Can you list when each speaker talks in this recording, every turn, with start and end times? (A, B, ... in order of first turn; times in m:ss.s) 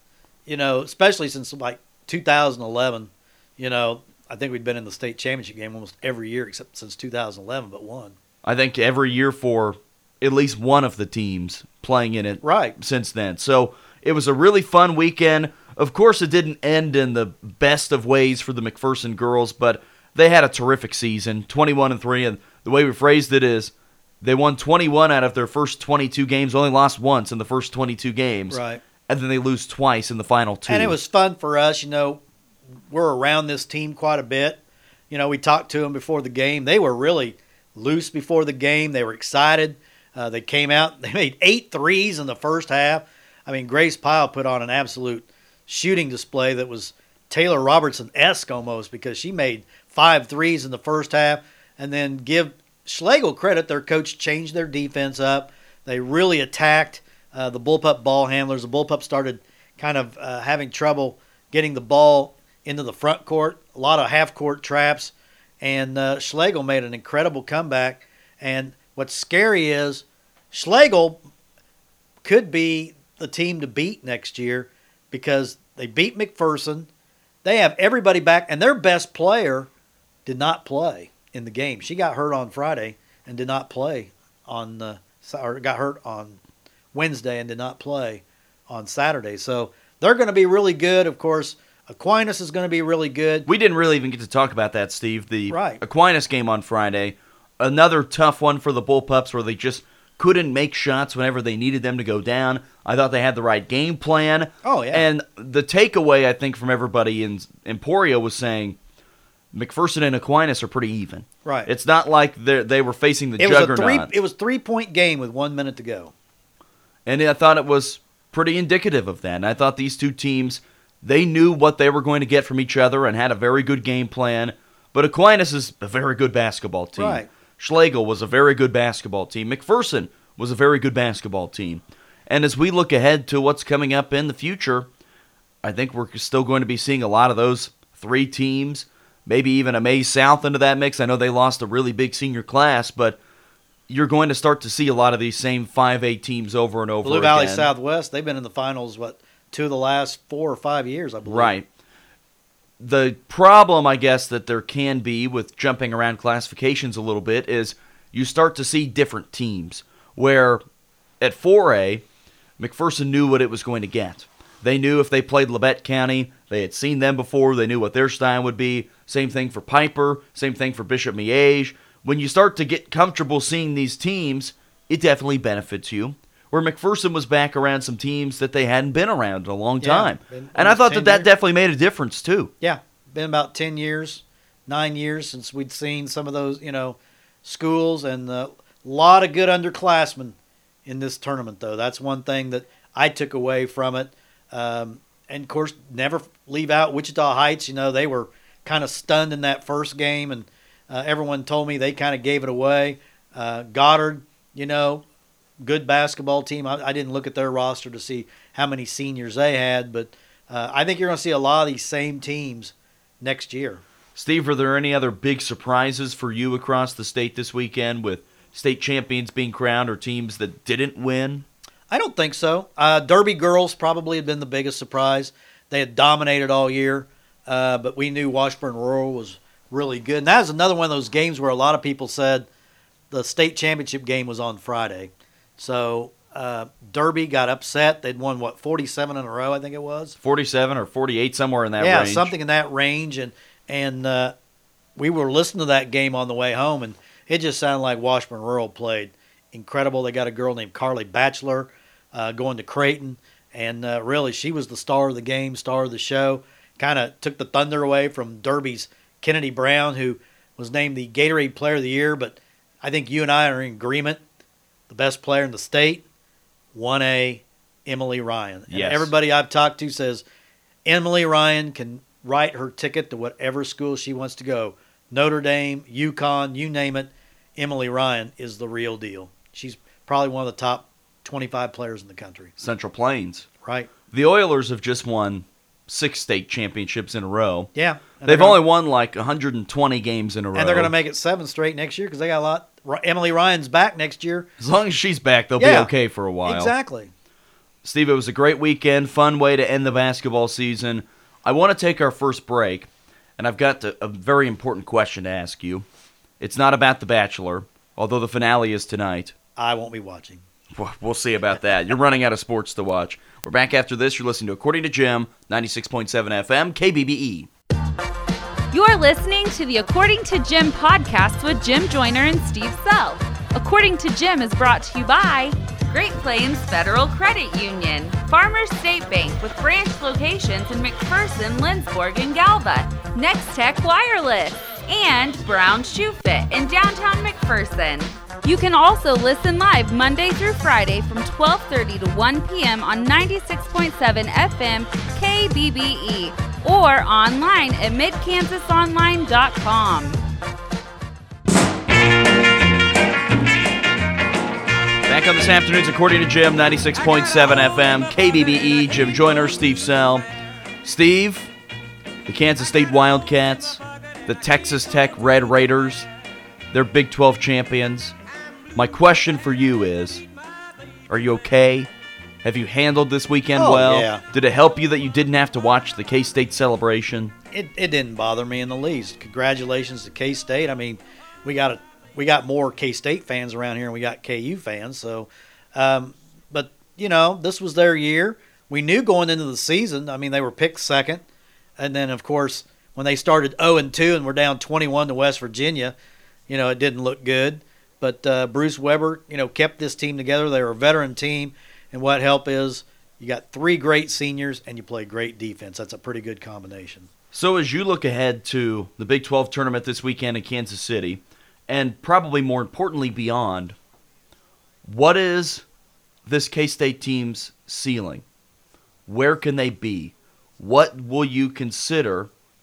0:00.5-0:08.2 A
0:08.4-0:31.0 B
0:12.4-0:12.8 A
0:28.5-0:28.8 A
0:30.7-0:32.2 A
0:32.9-1:11.2 A
1:12.2-1:16.9 A
1:17.4-1:19.7 A
1:20.3-1:26.4 A
1:26.9-1:33.5 A
1:33.5-1:48.8 B
1:35.5-1:35.8 A
1:44.6-1:45.1 A
1:49.5-1:54.1 B
1:51.4-1:51.7 A
1:53.4-1:56.1 A
1:57.1-2:14.9 B
2:07.0-2:07.3 A
2:15.6-2:23.2 B
2:23.9-2:27.7 B
2:27.0-2:31.5 A
2:31.3-2:31.7 B
2:32.8-2:40.6 B
2:41.2-2:42.0 B
2:42.6-3:02.5 B
2:59.8-3:01.3 A
3:02.6-3:25.0 A
3:25.6-3:33.8 A
3:34.2-3:41.5 B
3:41.9-3:52.5 A
3:53.1-4:00.2 A
4:00.2-4:02.3 B
4:01.8-4:04.3 A
4:05.0-4:24.2 A
4:24.9-4:26.0 A
4:26.7-4:30.2 A
4:28.7-4:29.1 B
4:30.9-4:42.5 A
4:42.6-4:43.5 B
4:43.6-4:43.9 A
4:44.1-4:47.7 B
4:47.8-4:48.6 A
4:48.3-4:50.9 B
4:50.6-4:54.5 A
4:54.6-4:56.7 B
4:55.6-4:55.9 A
4:56.4-4:57.1 A
4:57.8-5:05.9 B
5:06.4-5:09.3 B
5:09.6-5:10.4 A
5:10.7-5:17.5 B
5:18.7-5:50.2 C
5:55.1-6:00.3 B
6:00.8-6:01.5 B
6:02.3-6:06.1 B
6:06.7-6:08.2 B
6:08.8-6:10.2 B
6:11.1-6:11.9 B
6:12.4-6:17.3 B
6:13.6-6:14.2 A
6:17.5-6:31.2 A
6:31.8-6:35.9 A
6:36.5-6:47.1 A
6:47.3-6:53.8 B
6:54.8-6:55.6 B
6:56.3-6:58.2 B
6:59.1-7:02.3 B